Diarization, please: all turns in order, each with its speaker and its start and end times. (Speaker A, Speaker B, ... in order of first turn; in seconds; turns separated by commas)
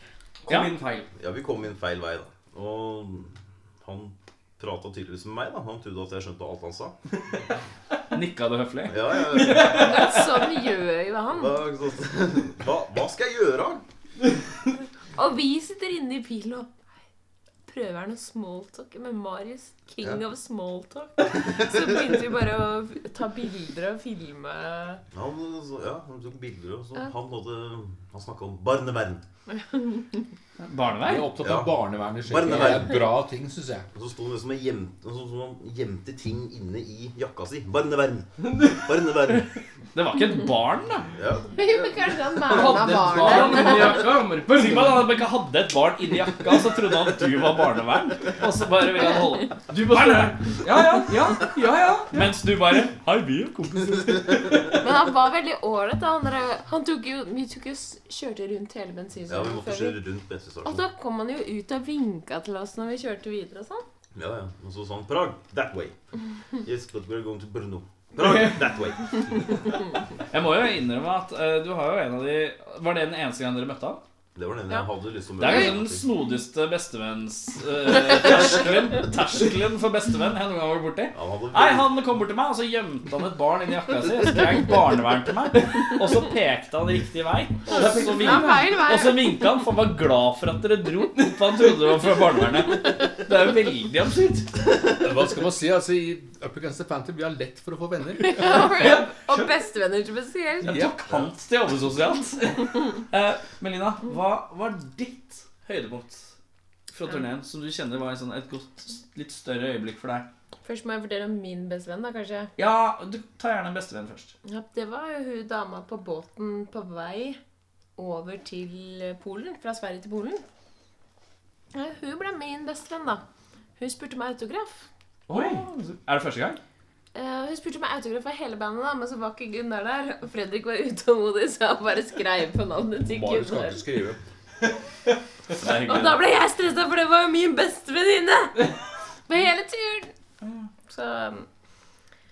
Speaker A: 0.5-1.1, Speaker B: 1.2-7.0, Speaker C: 8.1-10.2, Speaker B: 8.9-10.2, Speaker D: 9.7-11.6, Speaker B: 11.3-13.8, Speaker D: 15.2-16.7, Speaker D: 17.7-25.0, Speaker B: 25.1-29.2, Speaker D: 29.6-30.2, Speaker C: 30.6-31.3, Speaker E: 31.0-33.9, Speaker B: 31.4-33.2, Speaker B: 33.9-39.5, Speaker A: 38.4-38.9, Speaker C: 39.9-41.1, Speaker B: 41.1-42.6, Speaker D: 41.5-44.1, Speaker A: 42.5-45.1, Speaker C: 43.2-43.9, Speaker C: 44.5-50.9, Speaker A: 49.7-52.4, Speaker C: 52.1-54.6, Speaker D: 54.7-60.0, Speaker B: 59.3-60.9, Speaker D: 60.6-63.9, Speaker B: 64.2-66.0, Speaker B: 66.6-69.5, Speaker C: 70.3-74.0, Speaker B: 74.3-76.0, Speaker C: 75.4-94.5, Speaker D: 75.4-75.8, Speaker B: 81.1-82.0, Speaker A: 87.7-88.7, Speaker D: 87.9-89.5, Speaker E: 95.0-98.7, Speaker D: 98.2-100.9, Speaker A: 98.8-99.5, Speaker C: 100.6-106.3, Speaker E: 100.7-101.0, Speaker C: 106.9-110.3, Speaker D: 110.6-112.5, Speaker C: 112.6-114.3, Speaker D: 114.5-117.4, Speaker D: 118.0-120.4, Speaker D: 121.7-123.2, Speaker D: 123.8-124.9, Speaker A: 125.3-125.7, Speaker C: 125.3-126.6, Speaker D: 127.1-133.8, Speaker E: 133.0-134.2, Speaker C: 135.5-136.2, Speaker D: 135.7-138.7, Speaker D: 139.3-140.1, Speaker D: 140.9-141.5